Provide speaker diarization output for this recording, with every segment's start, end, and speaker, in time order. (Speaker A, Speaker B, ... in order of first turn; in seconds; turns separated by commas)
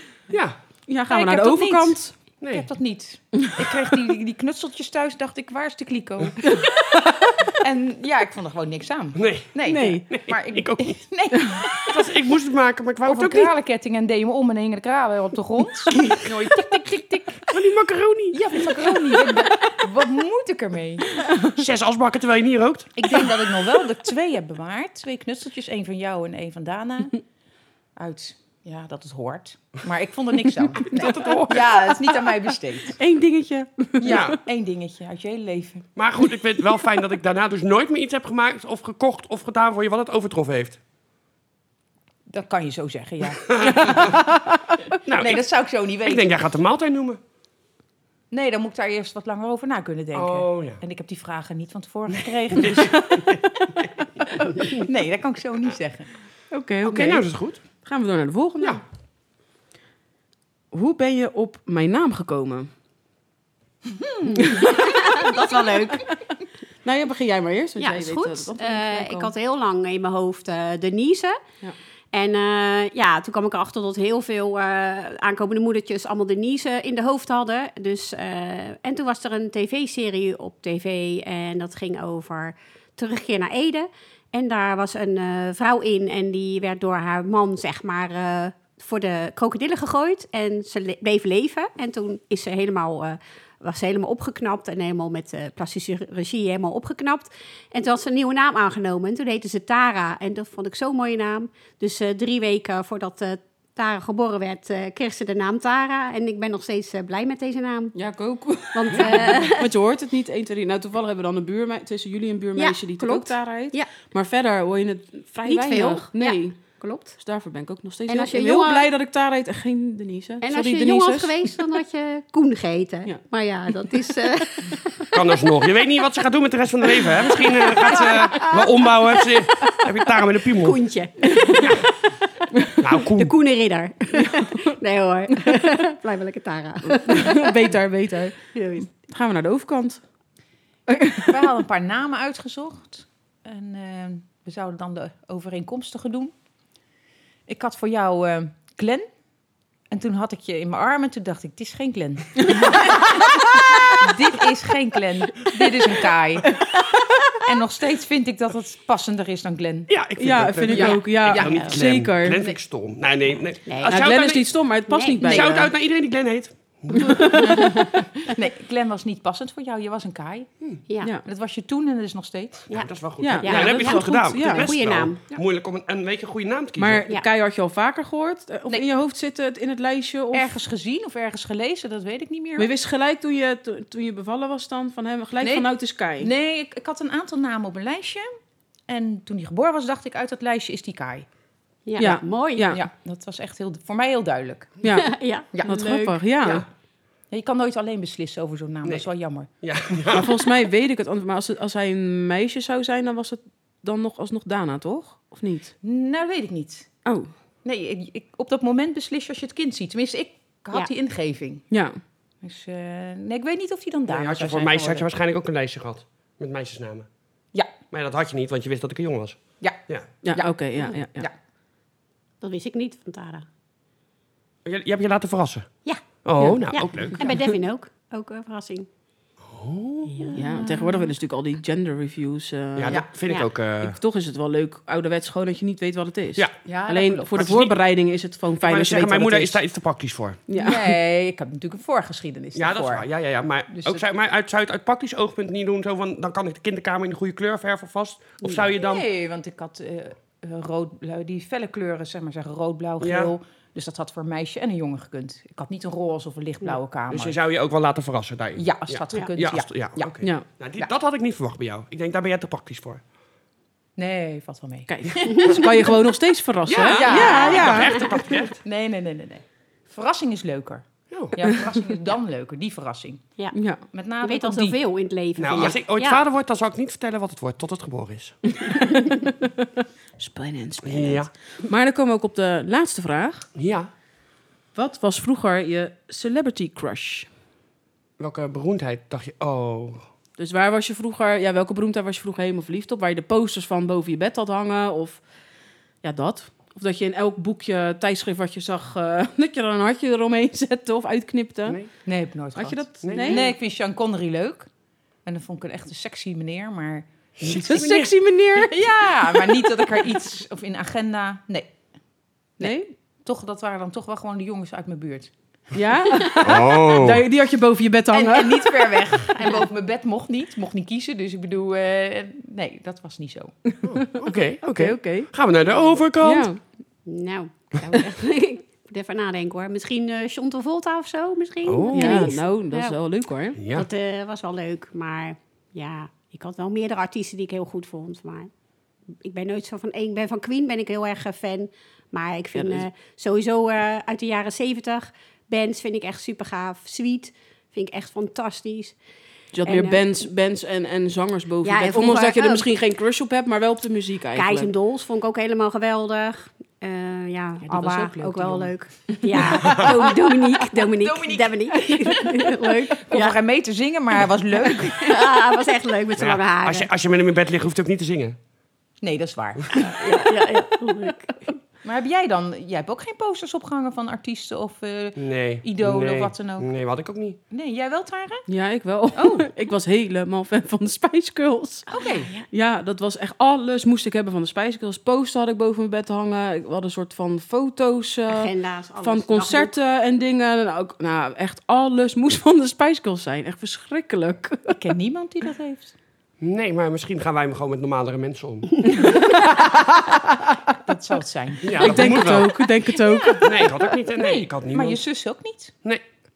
Speaker A: 0.3-0.6, Speaker B: 0.9-2.1, Speaker C: 1.1-12.0, Speaker A: 2.4-2.7, Speaker B: 6.4-7.3, Speaker A: 9.1-9.5, Speaker B: 9.7-10.1, Speaker A: 10.1-11.0, Speaker A: 11.8-13.5, Speaker C: 13.0-17.4, Speaker A: 17.5-18.7, Speaker C: 18.3-21.1, Speaker B: 19.4-19.8, Speaker A: 21.5-23.1, Speaker C: 22.9-27.2, Speaker C: 27.9-33.0, Speaker A: 30.9-31.7, Speaker B: 33.0-34.4, Speaker C: 34.0-35.9, Speaker A: 34.0-34.4, Speaker A: 36.0-40.8, Speaker C: 42.3-44.1, Speaker A: 43.5-44.2, Speaker B: 43.6-44.8, Speaker A: 45.0-45.4, Speaker C: 45.1-46.4, Speaker A: 46.0-47.2, Speaker C: 48.3-56.1, Speaker A: 50.1-50.8, Speaker A: 52.1-53.4, Speaker B: 56.5-57.2, Speaker A: 56.8-57.6, Speaker B: 57.8-58.8, Speaker B: 60.7-62.7, Speaker C: 63.9-64.4, Speaker B: 64.3-65.0, Speaker D: 64.5-66.2, Speaker B: 66.8-69.3, Speaker D: 67.8-71.4, Speaker D: 72.1-107.9, Speaker B: 107.9-116.6, Speaker D: 108.7-109.7, Speaker D: 112.5-113.9, Speaker D: 115.5-117.1, Speaker B: 117.1-121.3, Speaker D: 118.1-118.9, Speaker D: 120.4-125.2, Speaker A: 125.1-130.8, Speaker D: 127.2-129.2, Speaker D: 130.6-131.9, Speaker B: 131.4-131.6, Speaker A: 131.6-131.8, Speaker A: 132.8-133.3, Speaker D: 133.1-137.5, Speaker B: 136.9-140.0, Speaker D: 138.5-138.9, Speaker B: 140.9-141.3, Speaker C: 141.2-146.3, Speaker C: 147.5-149.1, Speaker C: 149.9-156.7, Speaker B: 152.4-153.9, Speaker C: 157.3-159.9, Speaker A: 159.9-164.5, Speaker B: 160.2-162.5, Speaker D: 160.7-161.7, Speaker C: 160.8-161.7, Speaker D: 163.7-164.0, Speaker B: 163.8-165.7, Speaker D: 164.9-165.2, Speaker A: 165.2-167.4, Speaker C: 165.2-165.5, Speaker B: 166.9-168.0, Speaker C: 167.4-170.5, Speaker C: 171.1-172.8, Speaker D: 172.7-175.2, Speaker A: 172.7-177.0, Speaker B: 173.2-174.7, Speaker B: 176.8-180.5, Speaker C: 180.3-182.7, Speaker B: 182.6-186.3, Speaker C: 185.4-188.3, Speaker C: 188.9-191.2, Speaker D: 191.8-192.7, Speaker B: 192.0-192.8, Speaker C: 192.7-194.8, Speaker B: 194.8-196.7, Speaker D: 194.9-196.1, Speaker C: 195.5-196.1, Speaker C: 197.3-199.5, Speaker A: 199.6-200.4, Speaker B: 200.1-205.7, Speaker C: 205.8-206.9, Speaker C: 207.6-211.7, Speaker C: 212.4-215.0, Speaker A: 214.1-217.1, Speaker A: 217.9-220.1, Speaker C: 219.6-221.3, Speaker B: 220.2-221.3, Speaker D: 222.4-223.4, Speaker A: 224.6-227.2, Speaker D: 225.8-228.9, Speaker B: 227.2-227.5, Speaker A: 229.4-230.3, Speaker D: 230.2-230.8, Speaker B: 230.3-233.2, Speaker C: 230.5-231.0, Speaker A: 232.8-234.0, Speaker B: 233.8-239.6, Speaker C: 236.7-237.6, Speaker A: 237.3-237.7, Speaker A: 238.6-240.4, Speaker B: 240.5-240.8, Speaker C: 240.5-243.1, Speaker A: 242.5-249.1, Speaker C: 243.7-244.0, Speaker C: 248.7-257.4, Speaker A: 253.0-253.3, Speaker A: 257.1-263.0, Speaker C: 258.6-260.2, Speaker C: 264.0-265.7, Speaker B: 264.9-267.9, Speaker D: 265.4-265.7, Speaker A: 266.6-268.6, Speaker C: 266.9-273.3, Speaker D: 267.1-268.1, Speaker A: 271.1-271.4, Speaker B: 273.5-273.8, Speaker C: 273.9-274.8, Speaker D: 274.2-276.2, Speaker A: 275.4-278.4, Speaker B: 278.6-279.6, Speaker B: 280.2-283.5, Speaker A: 280.8-281.3, Speaker A: 283.5-283.9, Speaker B: 284.7-287.3, Speaker A: 288.2-290.1, Speaker B: 290.4-295.2, Speaker B: 296.0-301.8, Speaker C: 302.0-304.7, Speaker B: 302.6-303.5, Speaker A: 303.0-303.5, Speaker C: 305.2-307.1, Speaker A: 307.4-308.1, Speaker B: 307.5-309.5, Speaker C: 308.6-311.7, Speaker C: 312.6-315.3, Speaker B: 312.6-312.9, Speaker B: 315.7-319.0, Speaker A: 316.4-317.2, Speaker C: 318.1-323.5, Speaker B: 323.7-325.3, Speaker A: 323.8-326.5, Speaker B: 326.2-326.6, Speaker D: 327.1-333.0, Speaker A: 331.6-332.4, Speaker B: 331.9-333.6, Speaker A: 333.6-333.9, Speaker D: 333.7-338.5, Speaker D: 339.2-349.0, Speaker B: 342.5-342.9, Speaker B: 349.5-354.7, Speaker D: 349.6-350.0, Speaker D: 351.6-352.6, Speaker D: 354.3-363.4, Speaker C: 357.6-360.2, Speaker C: 360.7-365.3, Speaker D: 364.7-366.9, Speaker A: 366.2-368.4, Speaker C: 369.0-370.0, Speaker D: 369.7-371.6, Speaker C: 371.8-376.7, Speaker A: 375.2-377.4, Speaker C: 377.5-378.5, Speaker B: 378.5-388.5, Speaker C: 379.1-379.5, Speaker C: 381.9-382.4, Speaker D: 382.0-382.3, Speaker D: 388.3-389.7, Speaker B: 389.0-394.8, Speaker C: 394.7-395.9, Speaker A: 396.4-398.9, Speaker B: 398.9-400.5, Speaker C: 400.8-405.7, Speaker A: 401.6-402.5, Speaker B: 401.8-403.7, Speaker A: 403.4-405.0